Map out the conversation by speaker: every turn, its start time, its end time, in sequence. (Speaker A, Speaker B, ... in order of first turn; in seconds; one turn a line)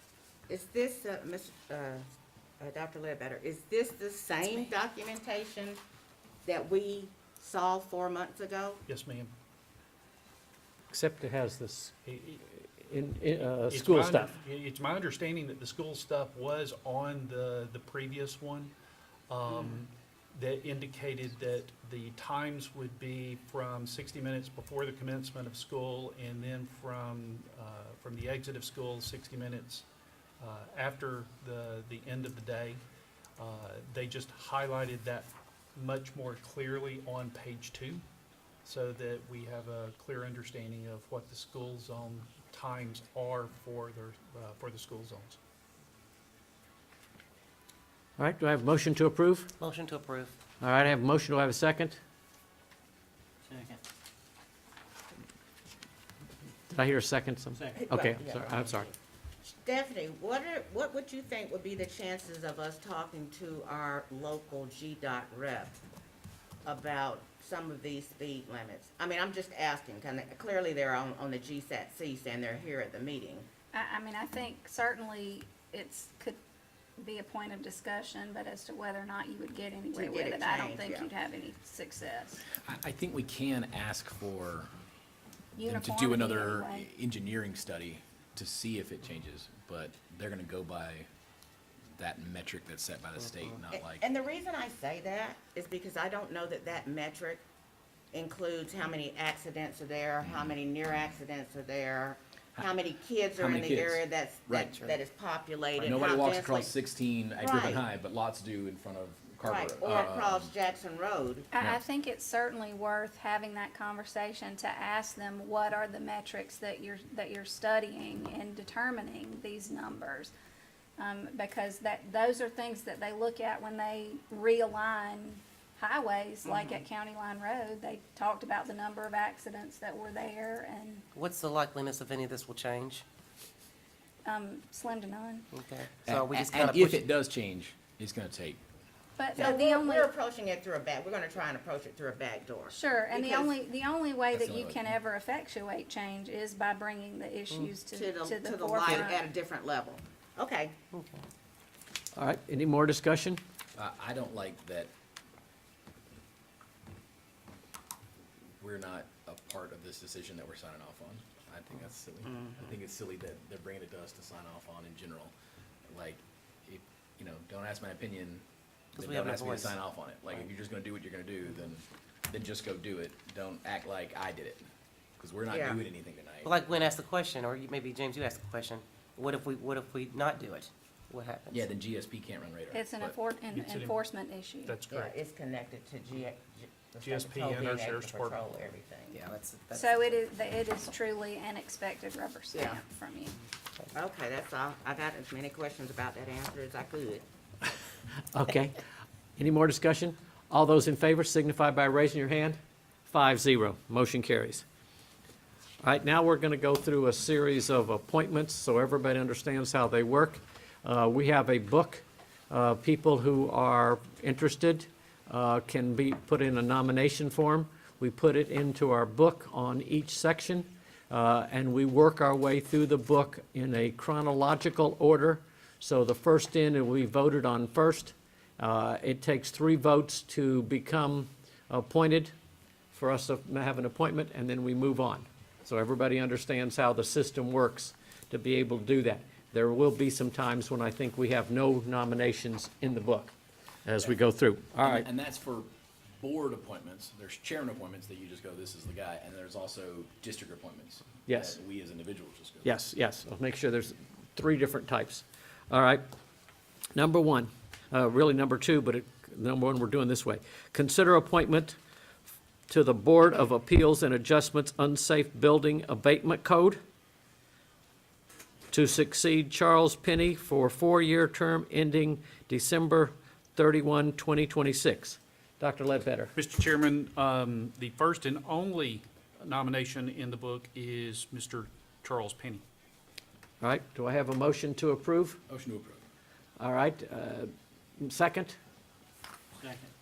Speaker A: 0.5-2.0
Speaker A: 2.6-5.8
Speaker A: 6.4-8.8
Speaker B: 8.9-9.3
Speaker C: 10.9-14.3
Speaker B: 13.7-18.7
Speaker B: 19.3-29.9
Speaker B: 30.4-32.8
Speaker B: 33.4-38.0
Speaker B: 38.6-45.4
Speaker C: 48.2-49.5
Speaker D: 49.6-50.3
Speaker C: 50.6-52.0
Speaker C: 56.7-58.9
Speaker A: 57.8-58.9
Speaker A: 59.5-65.8
Speaker A: 66.6-73.5
Speaker E: 73.7-76.4
Speaker E: 77.0-82.4
Speaker A: 79.9-81.1
Speaker F: 82.6-84.7
Speaker E: 85.5-86.9
Speaker F: 85.6-91.1
Speaker F: 91.9-94.0
Speaker A: 93.7-97.4
Speaker A: 98.1-106.7
Speaker F: 103.3-105.0
Speaker F: 105.8-110.5
Speaker A: 107.4-107.8
Speaker A: 109.4-111.5
Speaker E: 111.5-120.3
Speaker E: 121.0-131.0
Speaker A: 126.4-126.8
Speaker D: 131.1-133.0
Speaker E: 134.2-135.5
Speaker D: 135.6-137.1
Speaker F: 136.0-138.6
Speaker E: 139.2-140.1
Speaker A: 139.4-143.5
Speaker E: 142.7-149.2
Speaker F: 144.3-144.9
Speaker A: 147.9-150.8
Speaker D: 150.9-151.2
Speaker C: 152.2-153.4
Speaker F: 153.8-154.9
Speaker F: 158.6-165.3
Speaker A: 162.2-162.7
Speaker F: 165.9-174.6
Speaker D: 169.0-169.8
Speaker F: 175.2-176.6
Speaker A: 175.5-175.8
Speaker D: 176.4-181.5
Speaker F: 181.5-183.2
Speaker E: 182.7-184.8
Speaker B: 183.5-184.0
Speaker B: 184.6-185.1
Speaker A: 184.9-189.2
Speaker B: 187.0-188.4
Speaker D: 189.1-189.8
Speaker E: 189.7-193.4
Speaker A: 192.5-192.8
Speaker A: 193.9-197.2
Speaker C: 198.3-198.8
Speaker C: 199.4-204.6
Speaker C: 205.8-232.3
Speaker C: 232.9-243.3
Speaker C: 243.8-245.1
Speaker F: 244.8-245.7
Speaker F: 246.2-252.7
Speaker C: 251.3-251.6
Speaker C: 252.6-256.0
Speaker C: 256.9-261.8
Speaker C: 262.7-266.8
Speaker C: 268.7-276.3
Speaker B: 276.3-282.6
Speaker C: 283.6-285.4
Speaker F: 285.5-286.0
Speaker C: 286.6-288.6